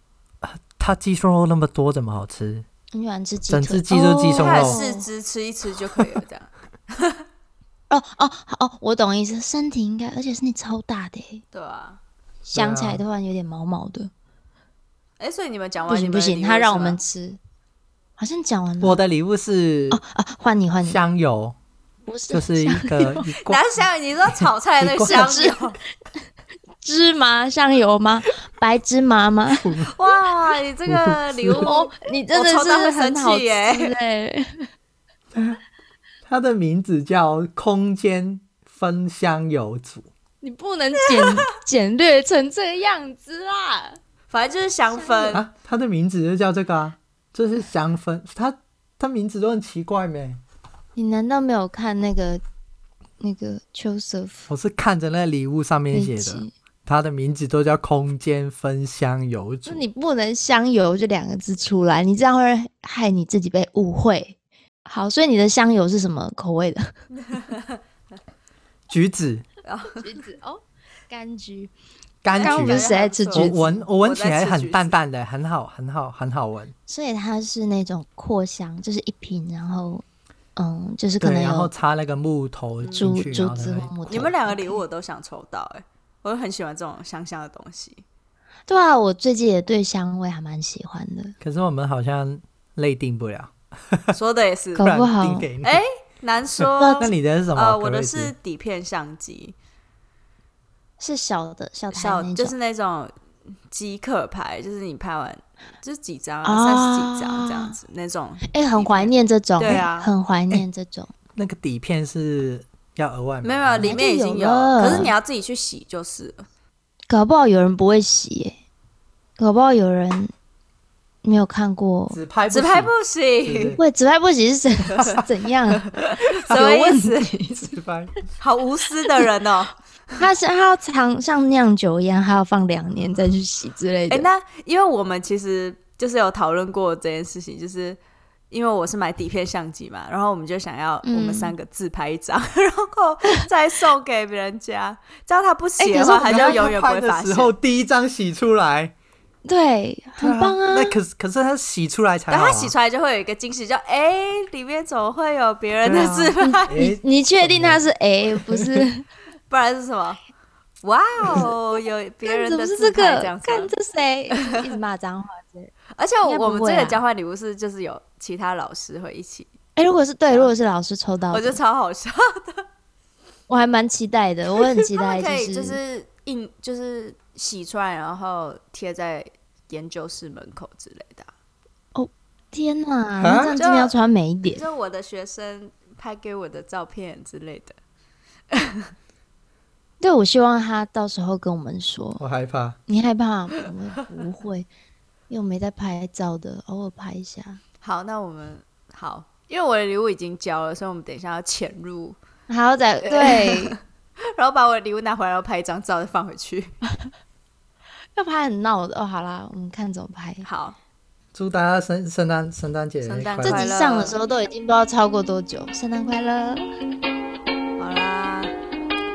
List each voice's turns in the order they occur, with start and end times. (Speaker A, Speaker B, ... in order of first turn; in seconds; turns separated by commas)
Speaker A: 0.4-2.7, Speaker B: 2.9-5.1, Speaker A: 3.5-4.8, Speaker C: 4.3-7.2, Speaker B: 7.9-11.4, Speaker C: 11.5-12.0, Speaker B: 12.4-14.1, Speaker A: 12.5-13.0, Speaker C: 15.2-17.0, Speaker B: 15.9-17.4, Speaker B: 18.2-19.0, Speaker A: 18.8-20.0, Speaker B: 19.9-21.0, Speaker A: 20.8-21.6, Speaker B: 22.1-23.3, Speaker A: 22.3-23.6, Speaker C: 23.5-25.8, Speaker A: 24.8-25.3, Speaker B: 25.1-25.6, Speaker B: 26.8-29.7, Speaker A: 29.5-29.9, Speaker C: 29.9-34.0, Speaker A: 30.9-31.7, Speaker B: 31.5-34.7, Speaker A: 35.3-35.6, Speaker A: 36.3-40.1, Speaker B: 40.4-44.0, Speaker C: 41.1-41.5, Speaker C: 44.3-45.4, Speaker B: 44.9-45.4, Speaker A: 45.3-50.4, Speaker B: 51.0-52.4, Speaker B: 53.2-54.5, Speaker A: 54.5-59.9, Speaker B: 55.9-56.5, Speaker B: 59.7-67.0, Speaker C: 67.3-67.7, Speaker A: 68.9-69.5, Speaker C: 69.6-70.0, Speaker B: 69.9-71.7, Speaker A: 72.2-76.7, Speaker C: 72.3-75.0, Speaker B: 72.4-73.9, Speaker B: 76.9-80.0, Speaker B: 80.6-81.7, Speaker A: 81.2-83.9, Speaker C: 82.8-83.1, Speaker B: 83.0-84.8, Speaker C: 84.0-88.0, Speaker B: 88.7-91.3, Speaker A: 91.4-94.2, Speaker C: 94.1-94.9, Speaker B: 94.8-95.5, Speaker A: 94.8-95.8, Speaker C: 95.6-99.5, Speaker A: 96.6-98.3, Speaker B: 96.8-97.1, Speaker B: 101.0-102.5, Speaker C: 101.9-103.1, Speaker C: 103.7-110.1, Speaker B: 106.5-107.8, Speaker B: 108.5-111.1, Speaker A: 111.4-114.0, Speaker C: 113.4-116.4, Speaker B: 113.8-115.2, Speaker B: 117.1-118.6, Speaker B: 119.4-120.3, Speaker B: 121.2-122.2, Speaker A: 122.1-123.8, Speaker C: 122.5-123.8, Speaker B: 123.8-125.9, Speaker C: 125.9-127.4, Speaker B: 126.5-127.8, Speaker A: 127.6-128.1, Speaker C: 128.4-129.8, Speaker B: 130.2-134.3, Speaker C: 134.1-138.0, Speaker C: 138.5-147.6, Speaker B: 141.0-141.6, Speaker B: 145.8-146.6, Speaker A: 146.2-148.9, Speaker B: 149.4-151.0, Speaker A: 150.2-152.7, Speaker C: 152.3-156.8, Speaker A: 155.8-157.8, Speaker B: 156.4-159.1, Speaker A: 158.5-158.8, Speaker C: 159.5-160.2, Speaker C: 160.8-163.7, Speaker B: 162.2-165.7, Speaker C: 166.0-169.5, Speaker B: 166.2-167.0, Speaker B: 169.8-171.6, Speaker C: 171.3-172.6, Speaker B: 173.5-175.8, Speaker C: 174.6-181.3, Speaker B: 181.9-184.7, Speaker A: 183.2-183.6, Speaker C: 183.6-187.8, Speaker C: 188.5-188.9, Speaker B: 190.0-192.2, Speaker A: 192.2-192.8, Speaker B: 192.9-194.7, Speaker B: 195.3-197.6, Speaker C: 197.8-202.2, Speaker B: 202.5-203.8, Speaker C: 203.1-203.8, Speaker C: 204.3-206.7, Speaker B: 208.2-210.5, Speaker C: 210.4-210.8, Speaker A: 211.3-213.7, Speaker C: 213.0-214.2, Speaker B: 213.4-216.7, Speaker C: 217.8-218.5